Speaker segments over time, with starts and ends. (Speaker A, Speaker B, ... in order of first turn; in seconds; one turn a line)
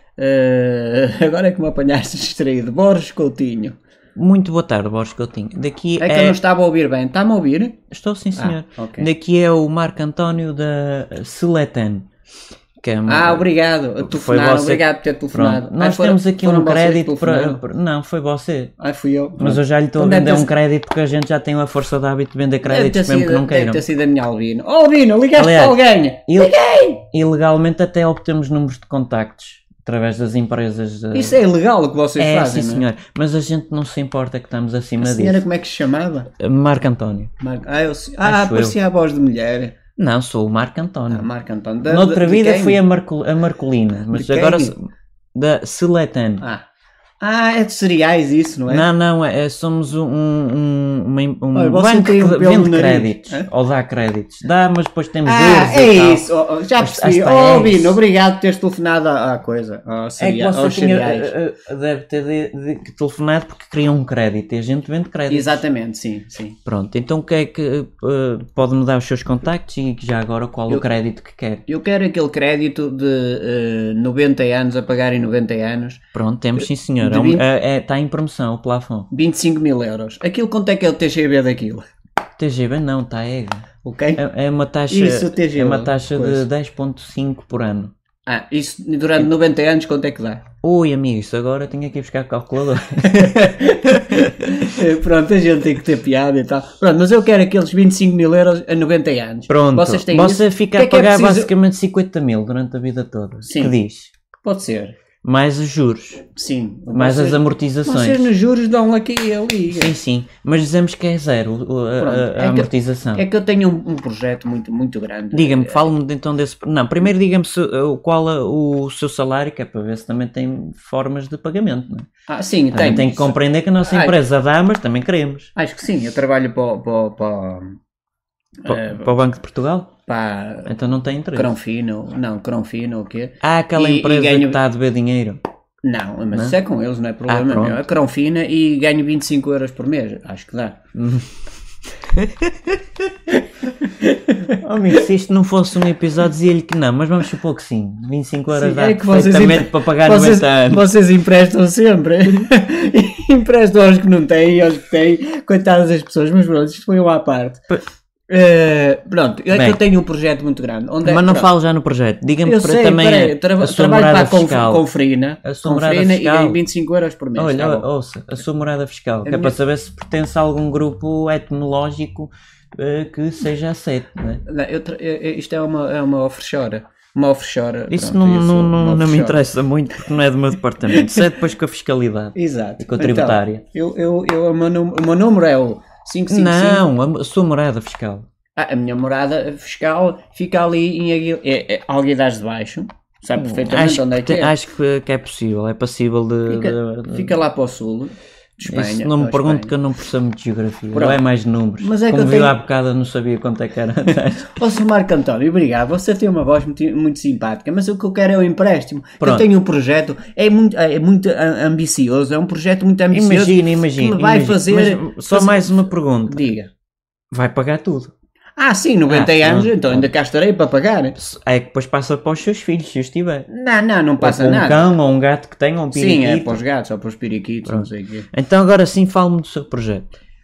Speaker A: 0.2-3.8
Speaker B: 4.2-6.4
Speaker A: 6.0-7.8
Speaker B: 7.9-12.1
Speaker A: 8.4-9.1
Speaker B: 12.8-13.5
Speaker A: 13.1-17.6
Speaker B: 14.0-18.7
Speaker A: 18.8-20.5
Speaker B: 19.4-23.8
Speaker A: 22.6-27.0
Speaker B: 25.4-31.4
Speaker A: 31.1-32.9
Speaker B: 32.2-35.4
Speaker A: 35.0-36.3
Speaker B: 36.4-37.3
Speaker A: 37.4-39.8
Speaker B: 38.2-38.8
Speaker B: 40.0-41.3
Speaker A: 41.1-42.8
Speaker B: 41.9-46.4
Speaker A: 44.1-44.7
Speaker A: 47.2-48.9
Speaker B: 48.7-58.0
Speaker A: 51.5-53.5
Speaker A: 55.2-61.3
Speaker B: 60.2-65.6
Speaker A: 65.3-66.6
Speaker B: 66.7-71.6
Speaker A: 70.7-71.0
Speaker A: 71.7-76.0
Speaker B: 76.1-79.1
Speaker A: 76.6-77.4
Speaker A: 79.1-81.8
Speaker B: 82.4-87.9
Speaker A: 83.8-84.2
Speaker A: 84.9-86.5
Speaker A: 88.3-90.4
Speaker B: 90.6-94.8
Speaker A: 93.1-101.5
Speaker B: 99.5-104.1
Speaker A: 103.4-103.8
Speaker A: 104.4-105.0
Speaker B: 105.2-106.3
Speaker A: 106.3-109.9
Speaker B: 106.9-108.3
Speaker B: 109.7-113.2
Speaker A: 112.0-115.9
Speaker B: 115.3-122.1
Speaker A: 122.3-124.2
Speaker B: 122.7-125.5
Speaker A: 125.6-127.8
Speaker A: 128.6-129.1
Speaker B: 128.7-129.9
Speaker A: 130.1-130.8
Speaker B: 130.7-131.5
Speaker A: 131.3-134.6
Speaker B: 133.4-135.4
Speaker A: 135.8-140.8
Speaker B: 137.3-137.8
Speaker B: 140.9-141.4
Speaker B: 142.2-142.5
Speaker A: 143.8-144.6
Speaker B: 144.6-150.9
Speaker A: 148.5-157.6
Speaker A: 158.3-161.5
Speaker B: 159.5-159.8
Speaker B: 161.1-164.8
Speaker A: 162.4-167.9
Speaker B: 165.4-166.6
Speaker B: 167.4-174.4
Speaker A: 169.3-169.5
Speaker A: 174.5-179.4
Speaker B: 177.9-183.6
Speaker A: 180.9-181.3
Speaker A: 182.3-186.9
Speaker B: 186.3-188.3
Speaker A: 188.6-194.5
Speaker B: 193.3-197.4
Speaker A: 196.5-199.7
Speaker B: 198.7-204.7
Speaker A: 200.9-201.2
Speaker A: 201.8-202.6
Speaker A: 204.4-216.7
Speaker B: 209.2-209.5
Speaker B: 213.1-216.5
Speaker B: 217.3-218.1
Speaker A: 218.6-221.2
Speaker B: 219.1-220.1
Speaker B: 221.2-223.5
Speaker A: 223.5-224.9
Speaker B: 224.2-226.6
Speaker A: 225.9-228.3
Speaker B: 227.7-230.1